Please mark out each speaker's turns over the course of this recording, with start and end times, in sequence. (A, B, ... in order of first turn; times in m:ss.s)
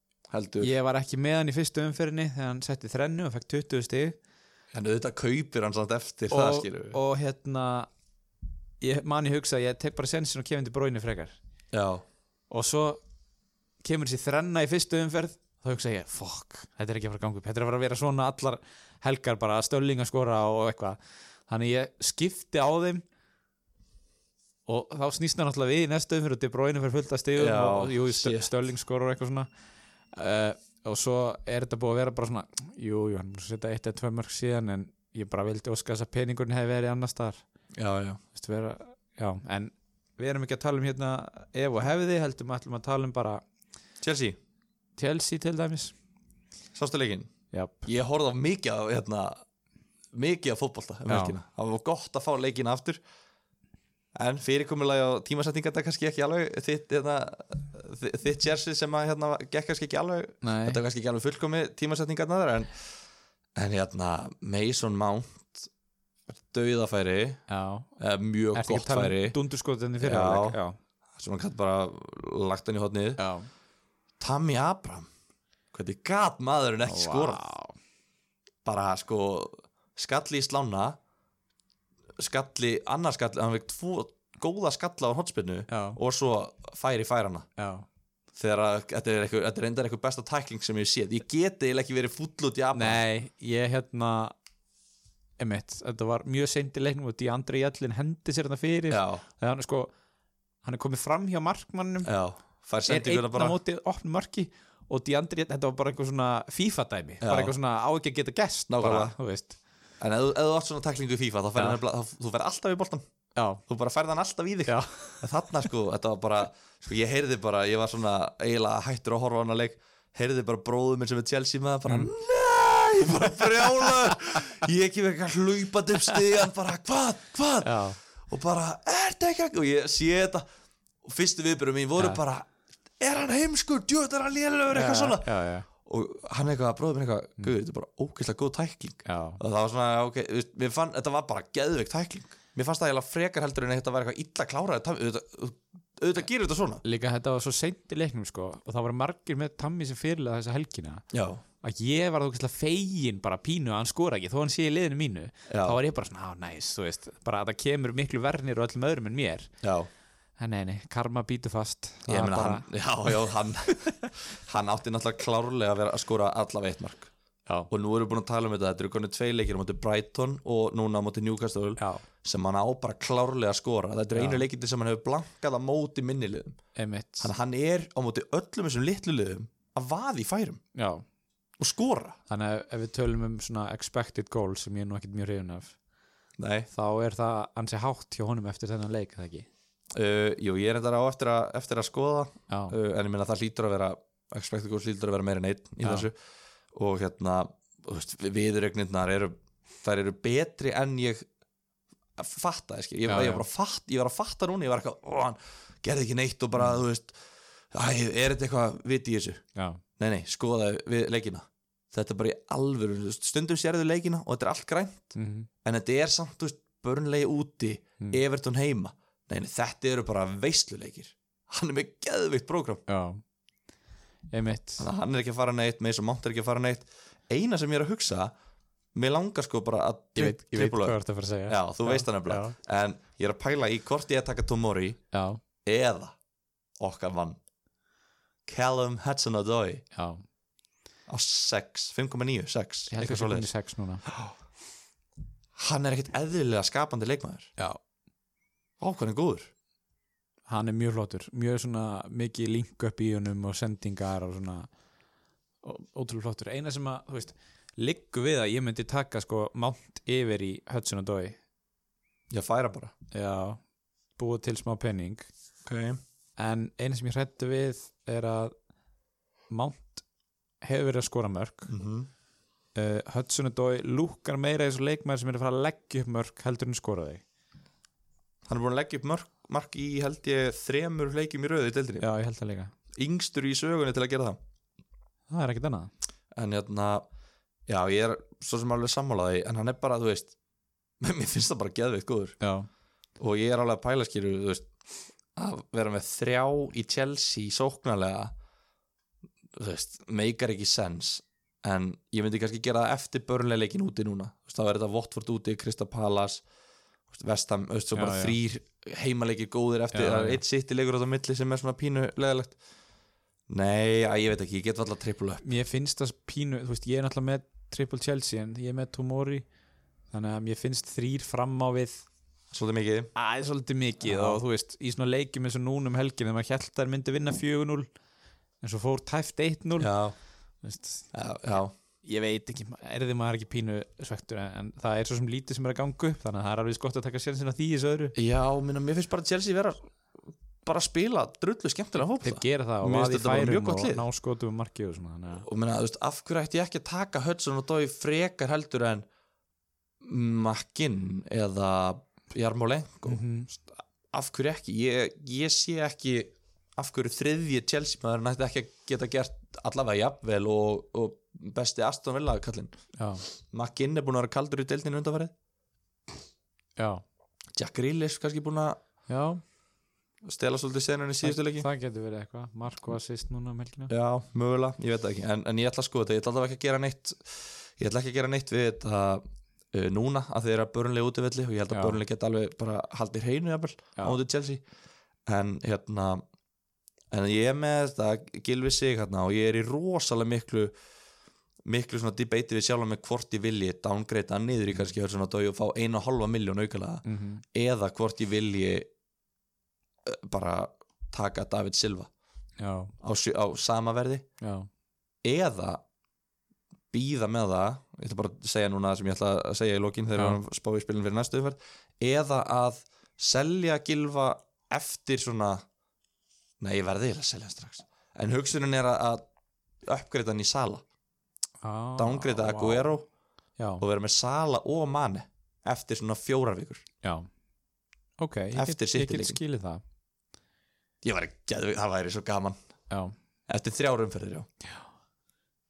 0:00.3-0:00.7 A
0:00.6-0:04.2 B
0:04.7-0:07.0 A
0:06.3-0:07.9 B
0:08.8-0:11.4 B
0:11.7-0:12.0 A
0:12.5-0:13.0 B
0:13.8-0:23.0 B
0:24.7-0:29.5 B
0:27.4-0:28.5 A
0:30.1-0:37.4 B
0:37.8-0:38.2 A
0:38.3-0:43.4 B
0:44.0-0:44.4 A
0:45.0-0:45.9 B
0:46.8-0:47.3 A
0:47.5-0:47.9 B
0:47.9-0:49.4 A
0:50.1-0:53.0 A
0:51.1-0:51.4 B
0:54.2-1:02.7 A
1:00.4-1:00.8 B
1:03.6-1:05.7 A
1:06.3-1:07.4 A
1:07.5-1:07.9 B
1:08.0-1:09.4 A
1:08.6-1:10.8 B
1:10.0-1:10.6 A
1:11.2-1:13.2 A
1:13.2-1:13.5 B
1:14.2-1:15.1 A
1:15.7-1:17.4 A
1:16.9-1:17.8 B
1:18.6-1:21.0 A
1:22.2-1:27.5 A
1:25.7-1:26.0 B
1:27.6-1:27.9 B
1:28.3-1:33.0 A
1:32.7-1:34.3 B
1:35.4-1:39.9 B
1:38.9-1:39.2 A
1:40.6-1:42.1 B
1:42.0-1:43.6 A
1:42.9-1:49.6 B
1:47.2-1:47.5 A
1:48.7-1:49.2 A
1:50.0-1:53.0 A
1:53.4-1:53.6 B
1:53.7-2:10.4 A
1:54.7-1:55.3 B
2:03.2-2:04.1 B
2:07.6-2:08.0 B
2:11.0-2:12.5 A
2:13.0-2:15.3 A
2:14.7-2:15.7 B
2:15.8-2:26.8 A
2:19.0-2:19.4 B
2:26.8-2:31.1 B
2:31.1-2:31.4 A
2:31.6-2:39.5 B
2:35.5-2:35.8 A
2:39.6-2:39.9 A
2:40.4-2:42.7 B
2:42.1-2:47.1 A
2:47.7-2:56.6 A
2:51.8-2:52.0 B
2:54.1-2:54.4 B
2:56.8-2:57.3 B
2:57.2-3:00.6 A
3:00.8-3:01.0 B
3:01.6-3:02.2 A
3:02.3-3:05.8 B
3:06.4-3:06.7 A
3:06.7-3:09.5 B
3:09.9-3:16.1 A
3:12.5-3:12.8 B
3:16.7-3:21.2 A
3:22.2-3:27.2 A
3:23.1-3:23.4 B
3:27.7-3:29.4 A
3:29.6-3:29.8 B
3:30.0-3:42.8 A
3:35.2-3:35.5 B
3:42.9-3:43.2 B
3:44.3-3:44.9 B
3:44.8-3:48.3 A
3:48.9-3:51.0 A
3:50.2-3:52.6 B
3:51.5-3:55.0 A
3:55.1-3:55.4 B
3:55.6-3:56.2 A
3:56.8-3:57.4 A
3:58.5-3:59.8 A
3:59.9-4:00.2 B
4:01.1-4:03.5 A
4:02.9-4:04.0 B
4:04.1-4:04.3 A
4:05.6-4:07.5 A
4:08.8-4:09.5 A
4:10.5-4:14.7 B
4:15.6-4:21.4 B
4:22.3-4:22.9 A
4:23.1-4:23.6 B
4:24.2-4:25.3 B
4:25.6-4:26.0 A
4:26.4-4:28.5 B
4:29.5-4:30.0 B
4:30.6-4:31.7 B
4:31.7-4:32.1 A
4:32.8-4:37.2 B
4:38.5-4:42.1 A
4:42.0-4:42.7 B
4:42.9-4:44.4 A
4:45.3-4:45.9 B
4:46.3-4:47.1 A
4:47.7-4:50.3 A
4:51.0-4:52.4 A
4:52.4-4:52.7 B
4:53.2-4:54.7 A
4:55.4-4:58.3 A
4:59.5-5:06.4 A
5:07.1-5:12.6 A
5:07.9-5:08.4 B
5:09.9-5:10.4 B
5:13.5-5:15.4 A
5:15.4-5:19.4 B
5:20.1-5:22.1 B
5:22.5-5:23.1 A
5:23.2-5:27.9 B
5:24.0-5:24.4 A
5:28.6-5:29.9 B
5:29.8-5:30.2 A
5:30.6-5:31.1 B
5:31.1-5:31.7 A
5:32.0-5:38.2 B
5:38.2-5:39.8 A
5:40.6-5:44.0 A
5:42.2-5:45.5 B
5:45.4-5:49.1 A
5:50.0-6:02.7 A
5:53.1-5:53.5 B
6:03.0-6:03.2 B
6:03.3-6:05.3 A
6:06.8-6:07.0 B
6:07.6-6:08.8 A
6:09.1-6:09.4 B
6:10.2-6:11.7 A
6:11.2-6:13.9 B
6:13.9-6:24.6 A
6:21.7-6:22.0 B
6:25.3-6:26.2 A
6:27.1-6:30.7 A
6:31.7-6:38.9 A
6:37.0-6:37.4 B
6:40.0-6:42.1 A
6:42.6-6:42.9 B
6:43.0-6:44.2 A
6:44.4-6:44.7 B
6:45.2-6:45.8 A
6:46.9-6:55.6 A
6:56.6-6:59.2 A
6:59.8-7:00.8 A
7:01.6-7:02.9 B
7:02.0-7:03.1 A
7:03.6-7:03.8 B
7:03.8-7:06.8 A
7:07.0-7:07.3 B
7:08.2-7:09.8 B
7:08.5-7:09.4 A
7:11.0-7:12.6 A
7:13.5-7:14.5 A